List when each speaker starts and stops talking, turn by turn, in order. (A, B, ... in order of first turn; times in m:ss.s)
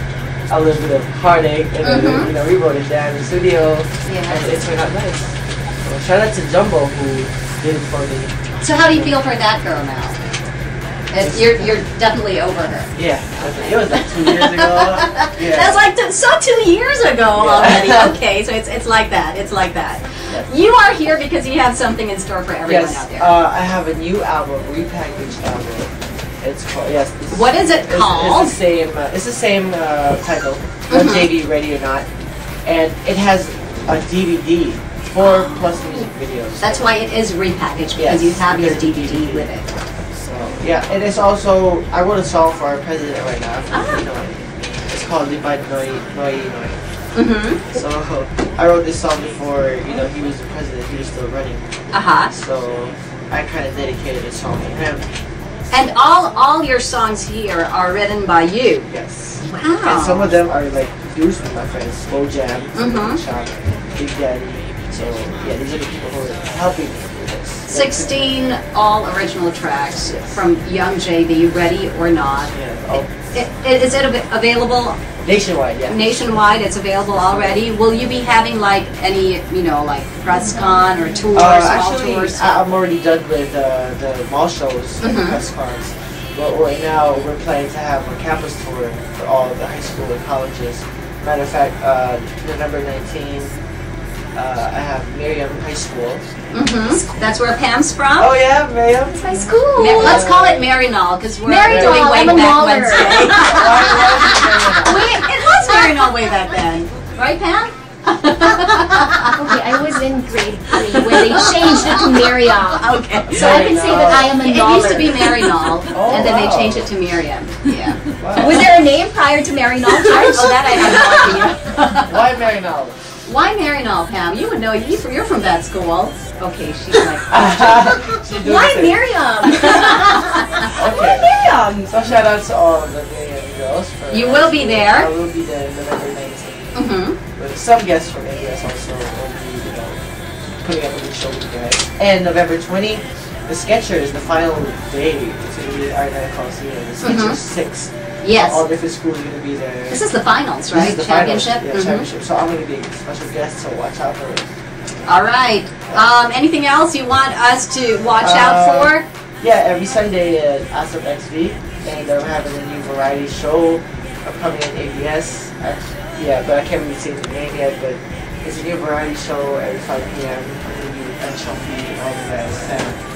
0:00.5-0:09.2 A
0:01.8-0:02.3 B
0:04.0-0:04.4 B
0:08.6-0:10.2 B
0:11.1-0:23.4 B
0:11.2-0:11.8 A
0:12.9-0:15.8 A
0:17.3-0:18.1 A
0:22.6-0:32.1 A
0:27.3-0:28.6 B
0:30.9-0:31.3 B
0:32.6-0:36.9 A
0:35.2-0:39.7 B
0:38.0-0:39.5 A
0:40.1-0:46.8 A
0:43.7-0:44.0 B
0:47.1-0:47.6 B
0:47.7-0:55.0 A
0:51.9-0:52.3 B
0:55.7-0:58.9 B
0:58.9-1:08.5 A
0:59.4-0:59.7 C
0:59.6-1:00.3 B
1:02.7-1:03.2 B
1:07.7-1:15.0 B
1:10.0-1:10.4 A
1:12.5-1:13.1 A
1:15.2-1:17.8 A
1:15.9-1:22.6 B
1:21.3-1:33.6 A
1:25.0-1:25.4 B
1:34.3-1:36.3 A
1:36.5-1:38.4 B
1:38.2-1:40.7 A
1:39.1-1:40.2 C
1:39.8-1:49.5 B
1:41.4-1:45.9 C
1:41.7-1:42.6 A
1:43.3-1:45.1 A
1:49.3-1:55.8 C
1:50.7-1:53.7 B
1:53.3-1:54.4 A
1:54.4-1:58.7 B
1:55.9-1:56.9 A
1:58.2-1:58.7 A
1:58.3-2:01.5 C
1:59.9-2:02.2 B
2:02.0-2:03.0 A
2:03.2-2:08.0 B
2:07.3-2:09.0 A
2:08.2-2:11.9 C
2:09.5-2:10.7 B
2:10.7-2:20.0 A
2:14.1-2:15.1 B
2:16.7-2:17.2 B
2:20.6-2:30.1 A
2:27.0-2:27.4 B
2:28.2-2:28.6 B
2:29.9-2:32.1 B
2:30.7-2:34.5 A
2:35.0-2:39.0 B
2:38.2-2:53.0 A